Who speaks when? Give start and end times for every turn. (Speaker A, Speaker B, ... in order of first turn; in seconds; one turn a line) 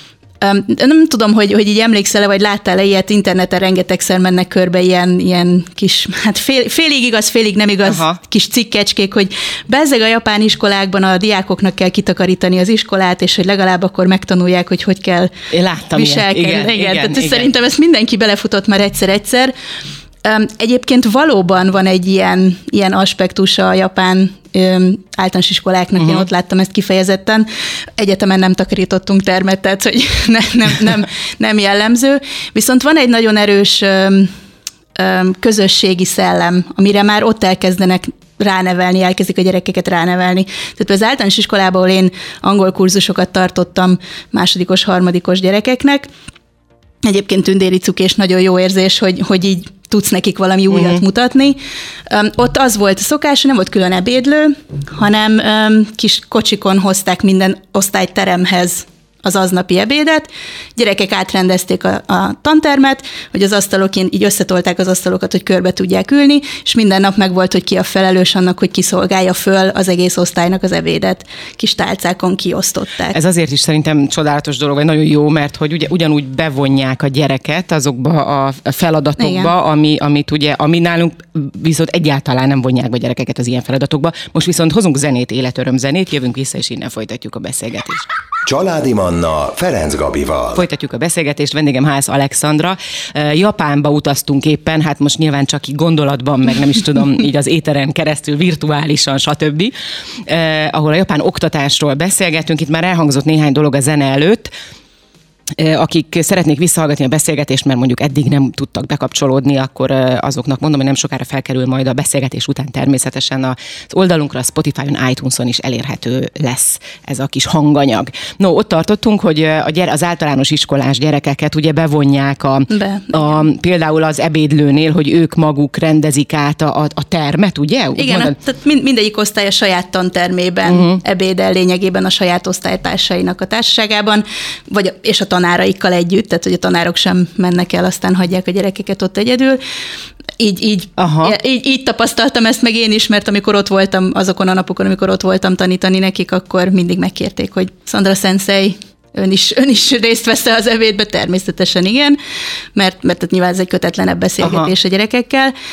Speaker A: 0.4-15.3
Speaker B: 7.8-8.2
Speaker B: 15.5-17.5
Speaker A: 15.9-19.5
Speaker A: 20.2-34.3
Speaker B: 26.0-26.2
Speaker A: 35.0-46.1
Speaker A: 47.0-73.2
Speaker B: 50.7-51.0
Speaker B: 73.1-88.1
Speaker A: 79.2-79.5
Speaker C: 88.5-90.6
Speaker B: 90.5-99.7
Speaker B: 100.2-104.5
Speaker B: 105.6-128.3
Speaker A: 122.7-123.4
Speaker A: 128.0-139.6
Speaker B: 130.7-131.0
Speaker A: 140.4-152.2
Speaker B: 141.0-141.3
Speaker A: 152.7-155.5
Speaker B: 154.4-154.7